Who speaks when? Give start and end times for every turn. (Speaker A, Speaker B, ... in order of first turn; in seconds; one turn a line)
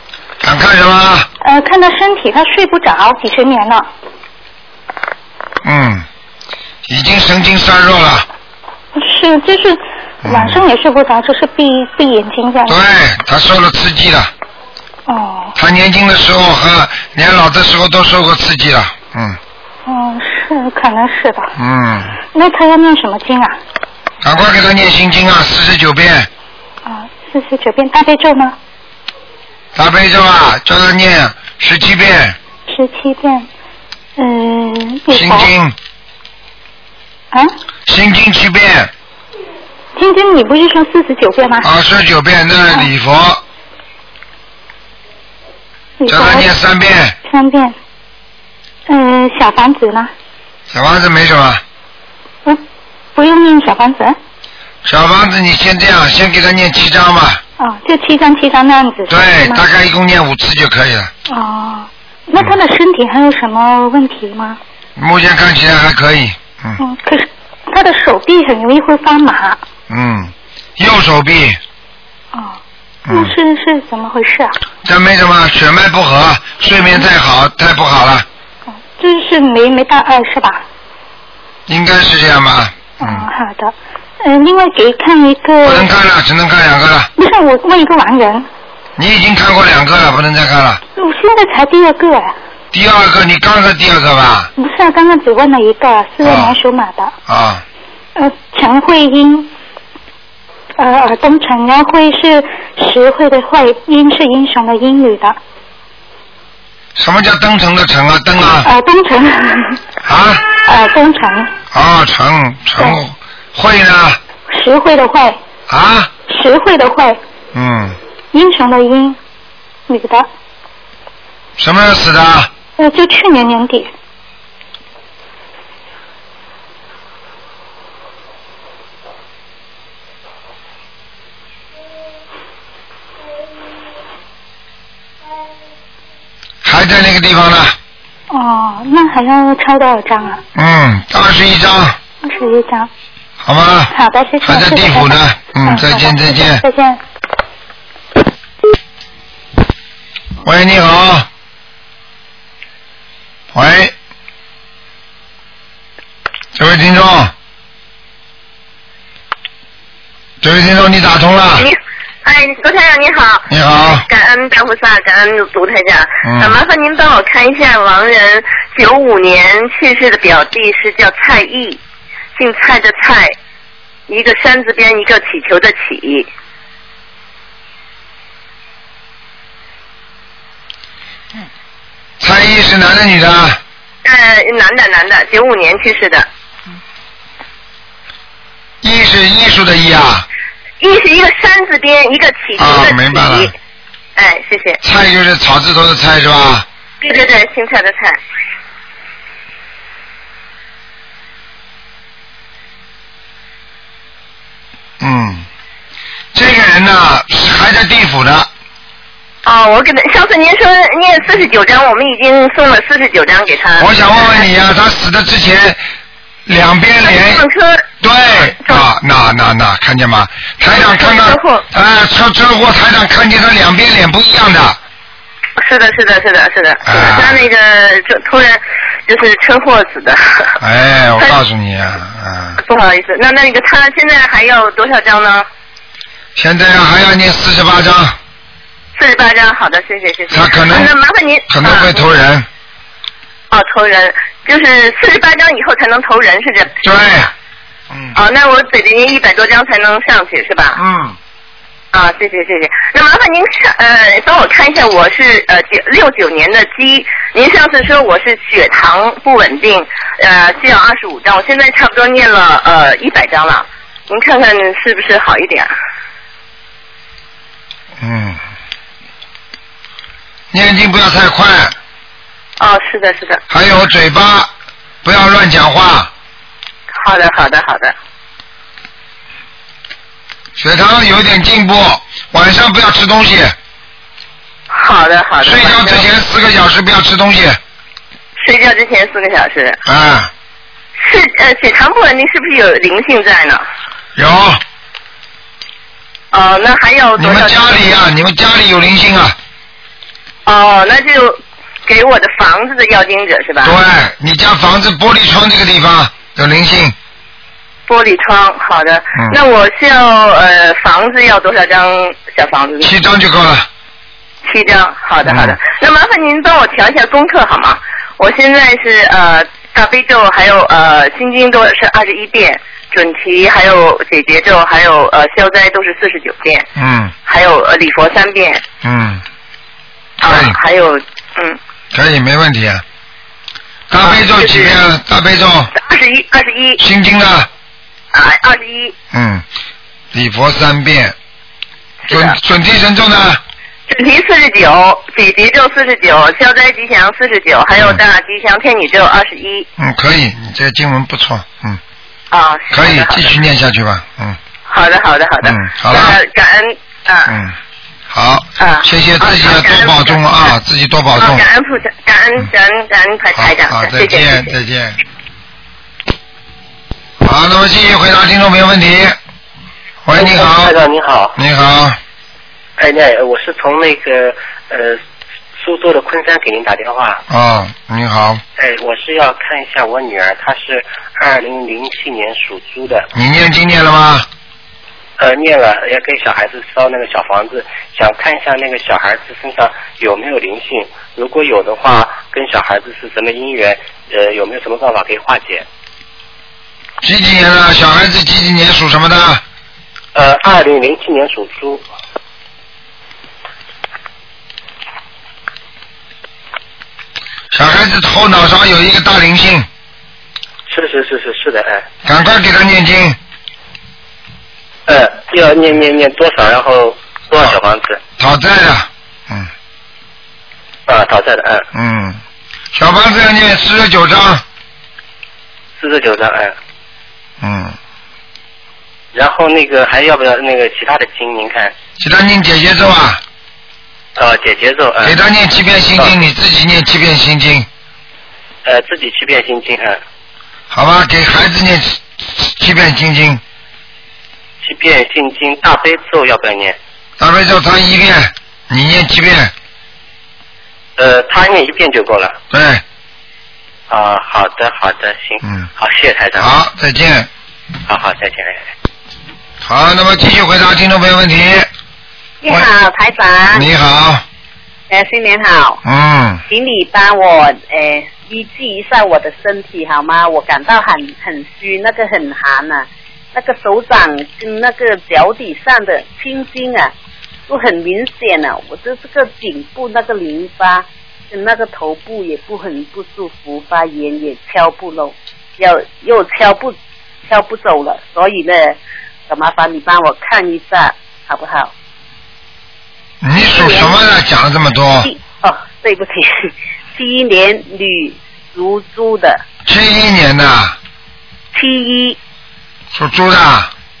Speaker A: 0.4-1.3
Speaker B: 1.4-3.9
Speaker A: 5.6-6.0
Speaker A: 6.9-8.2
Speaker B: 8.9-12.8
Speaker A: 10.2-10.6
Speaker A: 12.7-14.3
Speaker B: 15.1-15.5
Speaker A: 15.6-19.4
Speaker B: 19.9-21.5
Speaker A: 21.6-22.1
Speaker B: 22.3-23.6
Speaker A: 24.2-26.3
Speaker B: 26.8-28.6
Speaker A: 29.7-32.4
Speaker B: 32.7-33.5
Speaker B: 34.2-35.5
Speaker A: 35.1-35.7
Speaker A: 37.9-38.9
Speaker B: 40.0-41.7
Speaker A: 41.6-43.4
Speaker B: 46.0-46.5
Speaker A: 46.1-47.1
Speaker B: 47.2-47.7
Speaker B: 48.9-50.1
Speaker A: 50.7-51.6
Speaker B: 53.1-54.1
Speaker A: 54.8-57.4
Speaker B: 57.6-59.6
Speaker A: 59.1-61.1
Speaker B: 61.3-64.6
Speaker A: 65.0-66.8
Speaker B: 66.8-69.6
Speaker A: 69.9-71.6
Speaker A: 73.1-73.3
Speaker B: 73.1-74.5
Speaker A: 74.8-78.2
Speaker B: 78.9-80.6
Speaker A: 81.7-83.3
Speaker B: 83.0-85.9
Speaker A: 85.6-87.1
Speaker B: 87.2-88.4
Speaker A: 89.0-90.8
Speaker B: 91.0-92.3
Speaker A: 92.7-94.5
Speaker B: 94.5-97.1
Speaker A: 96.2-96.5
Speaker A: 97.3-97.6
Speaker B: 98.2-99.5
Speaker B: 100.8-105.4
Speaker A: 107.0-108.7
Speaker B: 108.6-109.8
Speaker A: 110.0-110.4
Speaker B: 110.6-111.5
Speaker A: 111.7-114.2
Speaker B: 114.5-115.4
Speaker A: 115.7-116.1
Speaker B: 116.3-117.2
Speaker A: 117.5-118.0
Speaker B: 118.3-119.2
Speaker B: 119.9-120.3
Speaker A: 121.6-122.5
Speaker B: 122.8-123.9
Speaker A: 136.6-137.8
Speaker B: 138.3-140.4
Speaker A: 140.5-142.0
Speaker B: 142.2-142.9
Speaker A: 143.4-146.6
Speaker B: 143.9-147.0
Speaker A: 150.4-151.3
Speaker A: 153.5-153.9
Speaker A: 156.6-157.3
Speaker A: 160.4-161.7
Speaker C: 161.6-163.5
Speaker A: 163.5-164.0
Speaker C: 164.0-171.8
Speaker A: 166.2-166.5
Speaker C: 172.3-173.3
Speaker C: 174.1-176.3
Speaker A: 182.2-183.6
Speaker C: 184.0-186.2
Speaker A: 188.8-190.2
Speaker C: 190.8-193.5
Speaker A: 192.6-193.5
Speaker C: 194.2-194.8
Speaker A: 194.8-196.6
Speaker C: 197.0-198.2
Speaker A: 205.0-205.4
Speaker A: 206.3-208.5
Speaker C: 209.4-214.4
Speaker A: 213.8-215.8
Speaker A: 216.5-217.4
Speaker C: 217.0-217.8
Speaker A: 218.0-224.8
Speaker C: 218.4-218.8
Speaker C: 220.6-221.6
Speaker C: 225.6-230.6
Speaker A: 226.8-227.4
Speaker A: 230.6-232.6
Speaker C: 232.6-235.4
Speaker A: 236.3-238.2
Speaker C: 238.9-242.1
Speaker A: 240.3-240.9
Speaker A: 241.5-242.4
Speaker C: 243.5-246.8
Speaker A: 246.8-247.3
Speaker C: 248.1-250.8
Speaker A: 250.8-251.2
Speaker C: 251.9-265.7
Speaker A: 268.0-268.4
Speaker A: 270.5-271.7
Speaker C: 272.6-273.4
Speaker A: 273.5-274.5
Speaker A: 275.0-276.1
Speaker C: 277.0-277.9
Speaker A: 280.6-283.5
Speaker C: 284.7-286.1
Speaker A: 285.4-287.6
Speaker C: 288.4-289.8
Speaker A: 289.9-290.3
Speaker C: 291.0-293.6
Speaker A: 294.1-294.6
Speaker C: 296.3-297.9
Speaker A: 297.2-299.4
Speaker C: 300.4-303.8
Speaker A: 303.6-306.9
Speaker C: 307.9-312.9
Speaker A: 312.8-313.7
Speaker C: 314.4-326.7
Speaker A: 315.2-315.6
Speaker A: 326.8-327.1
Speaker C: 327.2-328.6
Speaker A: 328.8-329.2
Speaker C: 330.2-331.6
Speaker A: 330.2-330.5
Speaker A: 331.9-332.8
Speaker A: 333.9-335.7
Speaker C: 334.0-334.8
Speaker C: 335.7-336.8
Speaker A: 336.8-337.5
Speaker C: 338.1-338.9
Speaker A: 339.1-339.4
Speaker A: 340.1-341.1
Speaker C: 342.1-342.4
Speaker A: 342.1-343.4
Speaker C: 343.9-349.7
Speaker A: 349.8-351.8
Speaker C: 352.3-353.3
Speaker A: 352.7-354.4
Speaker C: 354.7-357.3
Speaker A: 355.4-356.2
Speaker A: 357.3-357.5
Speaker A: 358.1-361.4
Speaker C: 358.6-360.5
Speaker C: 361.1-364.5
Speaker A: 363.4-365.0
Speaker A: 367.2-369.2
Speaker A: 370.0-370.7
Speaker D: 370.1-371.3
Speaker A: 371.3-372.0
Speaker D: 372.8-375.0
Speaker D: 375.6-377.2
Speaker A: 377.3-378.4
Speaker D: 378.6-383.1
Speaker A: 383.1-384.3
Speaker D: 385.2-395.6
Speaker A: 397.0-399.4
Speaker D: 400.1-401.9
Speaker A: 407.5-409.6
Speaker D: 410.7-411.9
Speaker A: 412.0-413.2
Speaker D: 414.9-418.0
Speaker A: 418.2-419.5
Speaker D: 420.9-421.6
Speaker A: 421.7-422.2
Speaker A: 422.7-424.4
Speaker D: 425.8-426.6
Speaker A: 427.4-427.8
Speaker D: 429.1-431.7
Speaker A: 432.0-433.2
Speaker D: 434.1-435.2
Speaker A: 435.0-437.7
Speaker D: 438.6-440.0
Speaker A: 440.7-443.4
Speaker D: 444.6-446.8
Speaker A: 447.2-449.5
Speaker D: 451.0-452.4
Speaker A: 452.5-452.8
Speaker D: 453.9-456.5
Speaker A: 456.4-457.3
Speaker D: 457.9-458.7
Speaker A: 459.6-461.7
Speaker E: 462.4-463.7
Speaker A: 463.5-464.2
Speaker E: 464.9-465.8
Speaker A: 465.8-466.4
Speaker E: 466.5-476.9
Speaker E: 477.5-491.7
Speaker A: 493.2-495.1
Speaker E: 493.4-494.0
Speaker E: 495.0-499.4
Speaker A: 499.6-500.8
Speaker E: 501.5-502.2
Speaker A: 502.9-503.7